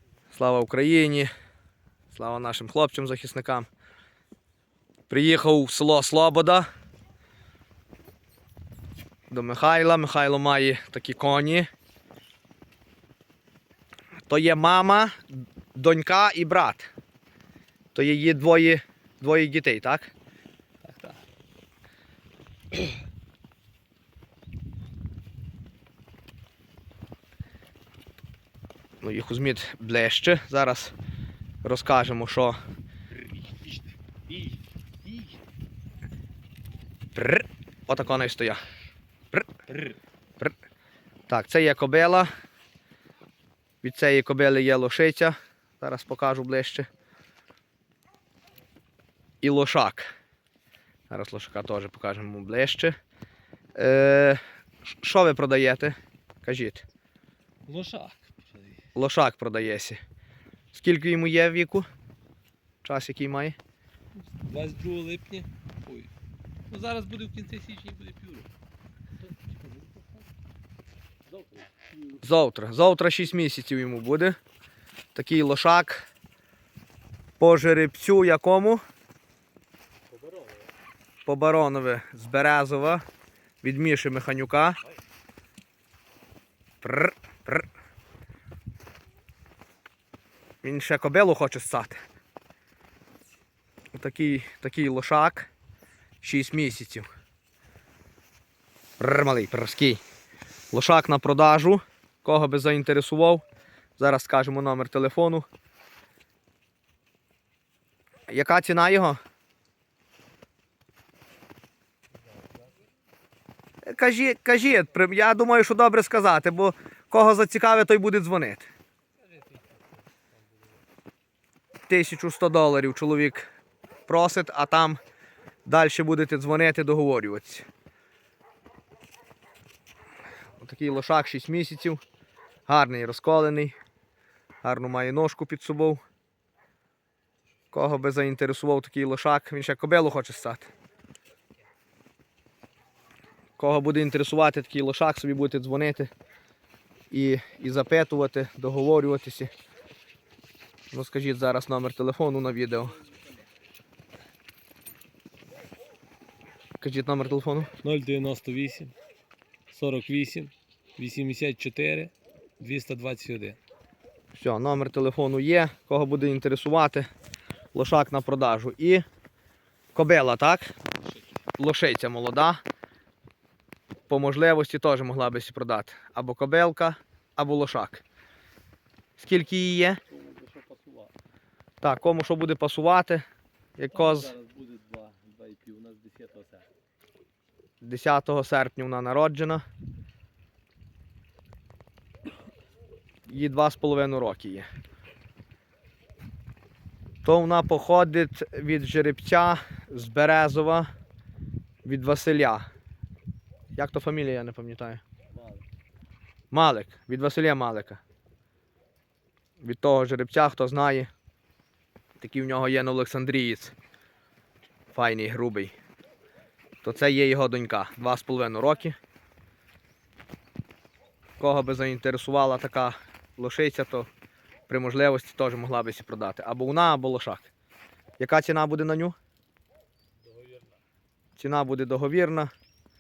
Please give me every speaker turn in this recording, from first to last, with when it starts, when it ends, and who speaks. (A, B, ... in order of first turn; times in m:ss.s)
0:00.3-0:01.3 A
0:02.1-0:03.7 A
0:05.1-0:06.7 A
0:09.3-0:11.7 A
0:14.3-0:16.9 A
0:17.9-0:20.1 A
0:20.8-0:21.2 B
0:29.0-0:30.9 A
0:31.6-0:32.6 A
0:33.2-0:35.4 B
0:37.1-0:38.6 A
0:39.3-0:39.6 A
0:41.3-0:42.3 A
0:43.8-0:46.9 A
0:49.4-0:50.1 A
0:51.1-0:52.9 A
0:53.8-0:54.4 A
0:55.0-0:56.8 A
0:57.6-0:58.8 B
0:58.9-1:00.0 A
1:00.7-1:01.8 A
1:02.8-1:03.6 A
1:04.2-1:06.1 B
1:06.7-1:08.5 B
1:09.5-1:10.0 B
1:11.3-1:12.3 B
1:12.2-1:14.4 A
1:15.1-1:16.1 A
1:17.4-1:18.8 A
1:20.1-1:20.7 B
1:21.2-1:23.0 A
1:23.6-1:24.8 A
1:26.8-1:27.7 A
1:30.6-1:32.0 A
1:33.9-1:35.5 A
1:36.2-1:37.1 A
1:39.0-1:40.0 A
1:40.7-1:43.4 A
1:44.0-1:45.4 A
1:48.3-1:49.2 A
1:52.4-1:52.7 B
1:53.8-1:58.7 A
1:59.2-2:00.8 B
2:01.9-2:03.5 A
2:04.1-2:05.0 A
2:05.6-2:07.6 A
2:10.6-2:12.0 A
2:12.7-2:13.8 A
2:14.6-2:16.0 A
2:17.7-2:20.7 A
2:23.6-2:26.1 A
2:27.1-2:29.5 A
2:30.9-2:32.9 A
2:32.8-2:33.4 B
2:36.8-2:37.7 A
2:37.8-2:38.9 B
2:39.7-2:43.6 B
2:44.3-2:47.1 A
2:47.7-2:49.0 A
2:49.9-2:50.7 A
2:51.6-2:52.6 A
2:54.1-2:58.0 A
2:59.2-3:00.0 A
3:00.1-3:01.1 B
3:01.8-3:03.2 A
3:03.8-3:04.3 A
3:03.9-3:06.7 B
3:07.8-3:09.6 A
3:13.3-3:14.7 A
3:17.2-3:20.9 A
3:21.8-3:22.6 A
3:23.8-3:25.0 A
3:25.3-3:25.6 B
3:26.5-3:28.0 A
3:29.6-3:31.1 A
3:32.2-3:33.7 A
3:34.9-3:35.7 A
3:36.8-3:39.0 A
3:41.4-3:44.1 A
3:44.7-3:47.5 A
3:48.2-3:49.1 A
3:50.2-3:50.8 B
3:51.4-3:52.5 A